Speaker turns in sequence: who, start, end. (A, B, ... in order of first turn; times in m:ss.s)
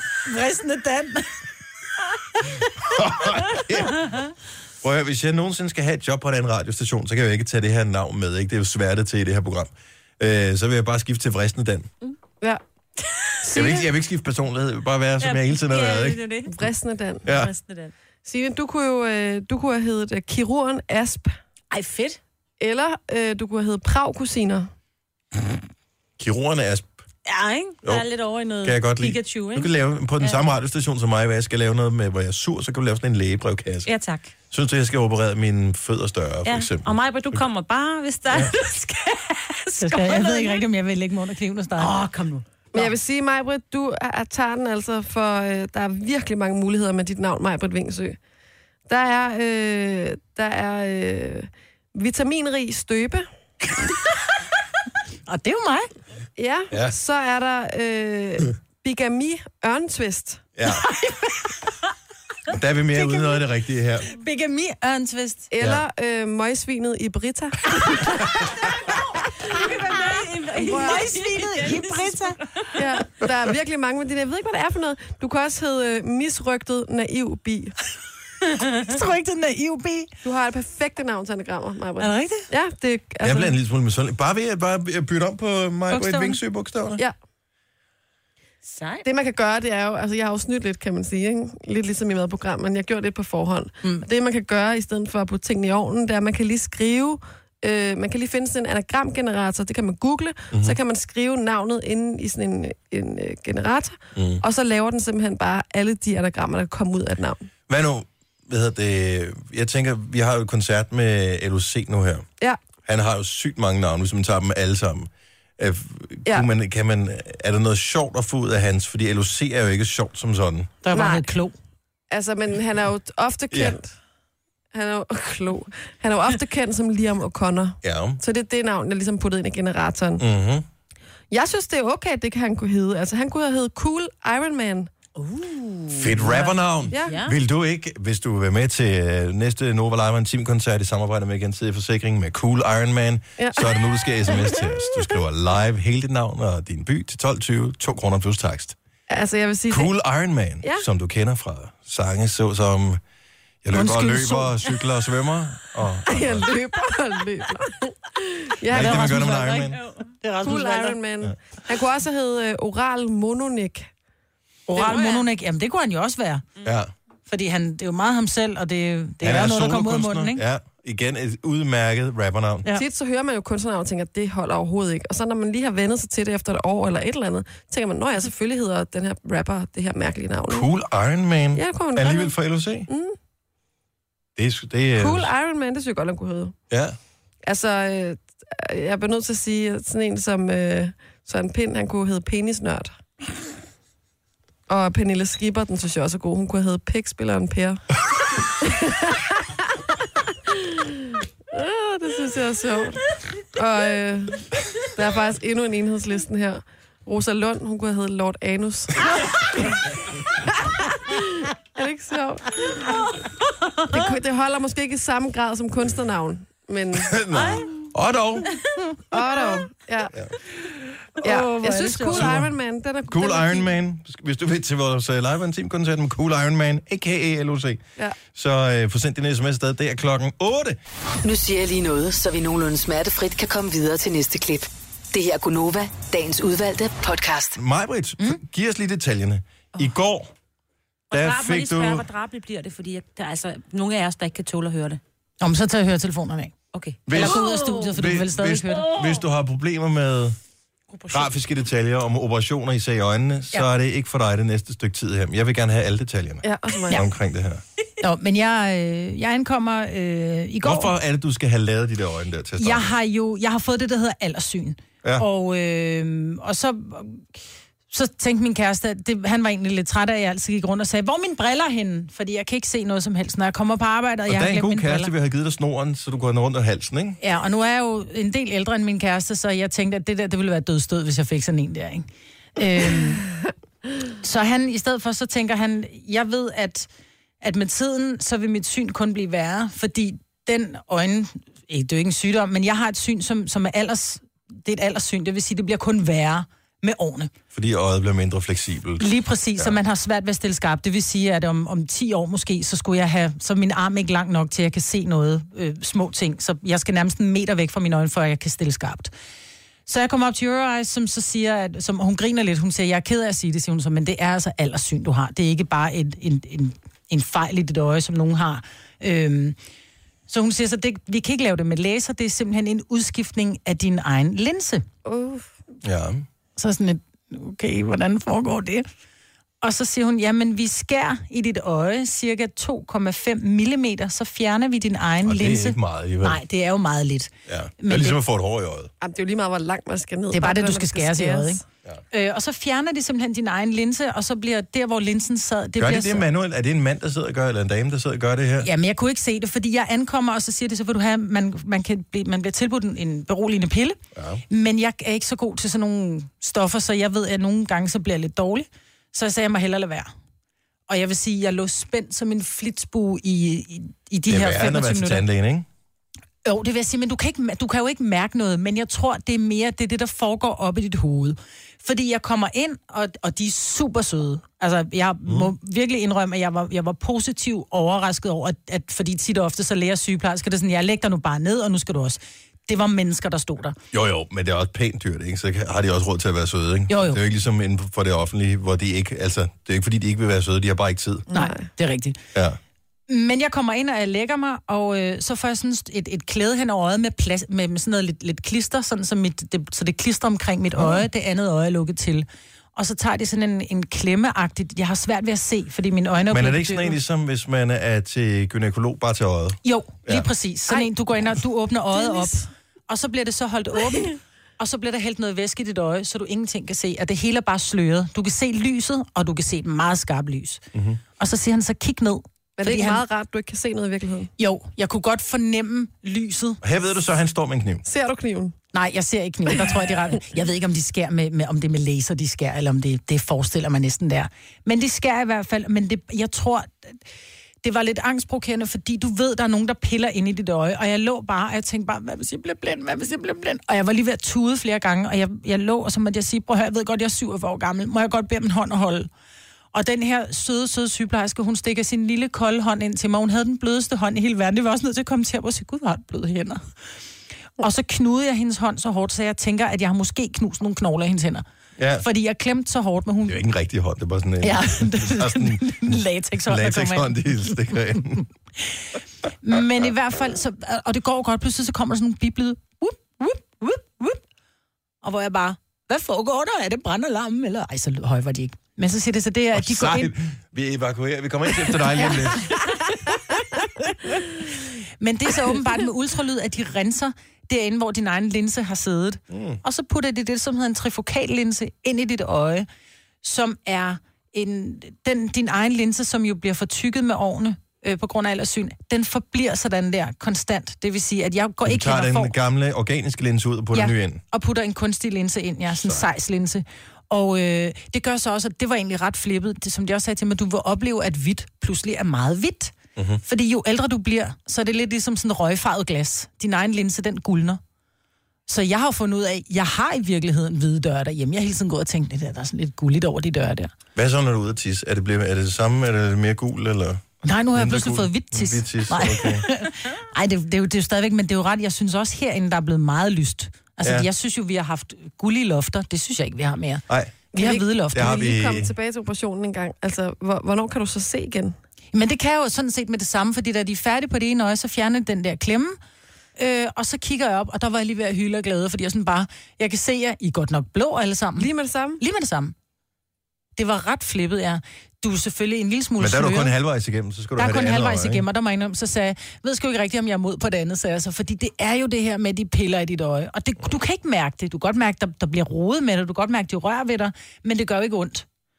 0:00.2-0:01.3 A
0:02.8-0:04.2 B
0:04.8-0:11.9 B
0:13.4-0:13.8 C
0:13.5-0:16.3 B
0:15.2-0:16.6 D
0:16.5-0:17.2 C
0:17.2-0:17.5 B
0:17.2-0:17.9 D
0:18.2-0:21.4 C
0:21.7-0:22.2 D
0:22.6-0:24.7 C
0:26.2-0:26.9 B
0:27.3-0:30.4 D
0:28.6-0:33.9 B
0:33.9-0:34.3 D
0:34.5-0:37.4 B
0:36.4-0:40.7 D
0:38.3-0:38.6 B
0:39.8-0:41.9 A
0:41.8-0:42.4 D
0:42.7-0:48.2 C
0:48.9-0:53.3 C
0:55.3-0:55.9 A
0:56.4-1:00.4 C
0:56.7-0:57.0 B
1:00.6-1:00.9 B
1:02.5-1:04.1 B
1:04.1-1:05.5 A
1:05.5-1:08.3 C
1:09.5-1:12.8 D
1:10.6-1:12.4 A
1:10.7-1:11.0 C
1:12.8-1:17.7 C
1:18.8-1:20.1 A
1:20.2-1:23.6 C
1:23.2-1:27.0 B
1:25.9-1:26.4 A
1:28.6-1:29.0 D
1:29.0-1:47.5 C
1:40.5-1:40.8 B
1:44.2-1:44.4 B
1:47.7-1:52.3 B
1:52.8-2:00.8 B
2:00.8-2:01.5 A
2:00.9-2:01.3 C
2:02.1-2:03.9 C
2:03.5-2:03.8 B
2:04.7-2:10.2 C
2:07.8-2:08.2 B
2:10.2-2:10.7 B
2:11.3-2:14.9 C
2:15.2-2:16.5 D
2:15.9-2:28.8 B
2:16.9-2:17.2 C
2:17.0-2:17.4 D
2:23.4-2:24.7 C
2:29.1-2:29.9 C
2:29.7-2:33.0 B
2:33.6-2:36.5 B
2:33.7-2:34.5 A
2:36.1-2:39.2 C
2:38.7-2:39.8 B
2:38.7-2:41.0 A
2:39.7-2:40.1 D
2:40.4-2:43.9 C
2:44.7-2:46.4 A
2:44.8-2:45.2 D
2:46.6-2:46.9 B
2:47.3-2:50.4 A
2:49.2-2:52.7 B
2:52.7-3:00.7 C
3:00.5-3:02.9 B
3:01.6-3:02.3 C
3:02.9-3:03.2 C
3:04.4-3:05.3 B
3:05.0-3:06.6 C
3:06.7-3:07.0 B
3:07.4-3:13.0 C
3:14.7-3:17.8 C
3:18.6-3:19.4 C
3:20.5-3:29.3 C
3:30.8-3:33.1 C
3:33.9-3:37.2 C
3:37.0-3:38.5 B
3:37.3-3:37.7 D
3:39.1-3:40.1 C
3:40.7-3:43.7 C
3:41.2-3:42.2 D
3:41.6-3:42.0 A
3:42.1-3:42.5 B
3:43.1-3:50.8 B
3:51.2-3:57.6 E
3:57.6-4:00.3 B
4:01.1-4:05.0 D
4:01.1-4:02.1 B
4:05.4-4:06.5 A
4:06.7-4:07.9 D
4:07.1-4:10.4 B
4:07.1-4:08.9 A
4:08.7-4:09.2 D
4:10.9-4:11.3 D
4:11.1-4:17.6 B
4:16.4-4:17.0 C
4:18.0-4:20.9 A
4:20.6-4:22.9 B
4:22.6-4:27.3 A
4:27.9-4:35.1 A
4:34.3-4:37.2 B
4:37.2-4:43.2 A
4:44.2-4:46.9 A
4:47.4-4:57.3 A
4:57.5-4:59.8 B
4:59.0-5:09.1 A
5:09.9-5:19.6 A
5:20.3-5:24.8 A
5:25.0-5:25.5 C
5:25.8-5:26.2 B
5:26.6-5:28.9 A
5:29.6-5:38.2 A
5:35.2-5:36.4 B
5:37.5-5:38.9 B
5:39.0-5:41.6 C
5:40.3-5:46.3 A
5:45.8-5:48.7 B
5:48.6-6:00.1 A
5:54.2-5:54.4 B
6:00.9-6:05.2 A
6:04.3-6:05.7 B
6:06.4-6:23.8 A
6:15.3-6:15.5 B
6:23.9-6:31.3 B
6:26.9-6:27.2 A
6:31.3-6:32.2 A
6:31.3-6:31.6 C
6:33.1-6:47.0 A
6:46.3-6:50.3 B
6:49.6-7:00.6 A
6:51.9-6:52.5 C
7:00.7-7:01.0 B
7:01.2-7:03.0 A
7:02.6-7:04.3 C
7:04.4-7:06.6 A
7:06.6-7:07.8 B
7:07.9-7:08.6 C
7:08.7-7:17.0 A
7:17.6-7:29.1 A
7:29.7-7:36.6 A
7:37.6-7:41.4 A
7:41.8-7:42.0 B
7:42.0-7:43.4 A
7:43.3-7:48.3 B
7:44.4-7:47.7 A
7:49.4-7:54.2 A
7:55.0-8:00.1 A
7:59.5-8:02.8 B
8:02.0-8:02.4 A
8:05.0-8:12.7 A
8:09.3-8:09.6 B
8:13.2-8:22.3 A
8:21.6-8:24.2 B
8:23.7-8:37.6 A
8:25.7-8:26.0 B
8:33.0-8:33.2 B
8:38.5-8:43.7 A
8:44.0-8:49.5 B
8:47.2-8:58.3 A
8:53.8-8:54.1 B
8:56.9-8:57.3 B
8:57.3-9:01.6 C
8:57.9-8:58.7 B
9:01.9-9:05.8 A
9:06.4-9:11.5 A
9:11.4-9:12.0 C
9:12.0-9:12.5 A
9:13.6-9:16.5 A
9:16.0-9:18.2 B
9:17.4-9:28.3 A